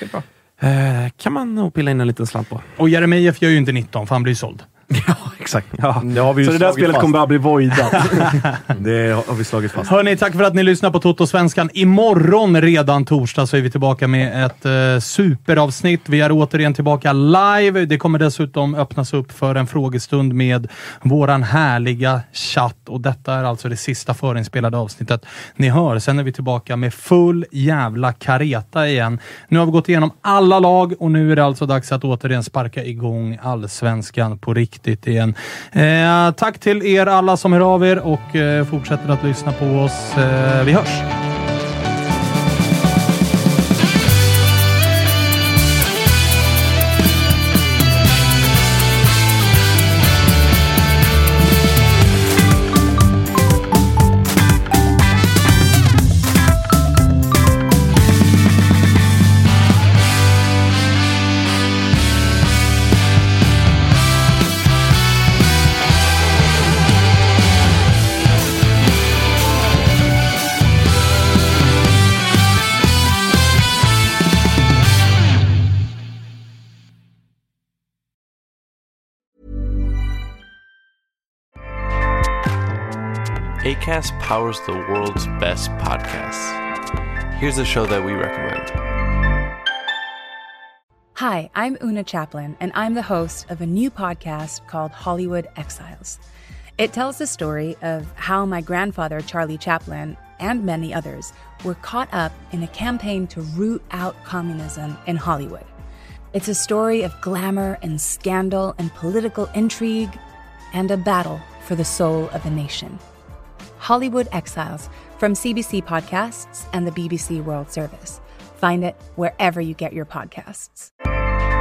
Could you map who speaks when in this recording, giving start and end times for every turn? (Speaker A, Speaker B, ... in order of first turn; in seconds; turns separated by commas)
Speaker A: 0.6-2.6, Speaker B: 2.8-4.7, Speaker C: 4.9-7.2, Speaker A: 5.8-8.3, Speaker B: 8.0-8.5, Speaker C: 8.7-9.9, Speaker B: 9.8-41.1, Speaker D: 83.6-86.6, Speaker D: 87.3-88.8, Speaker E: 91.2-96.2, Speaker E: 96.8-105.7, Speaker E: 106.3-110.2, Speaker E: 110.7-113.0, Speaker E: 113.8-120.9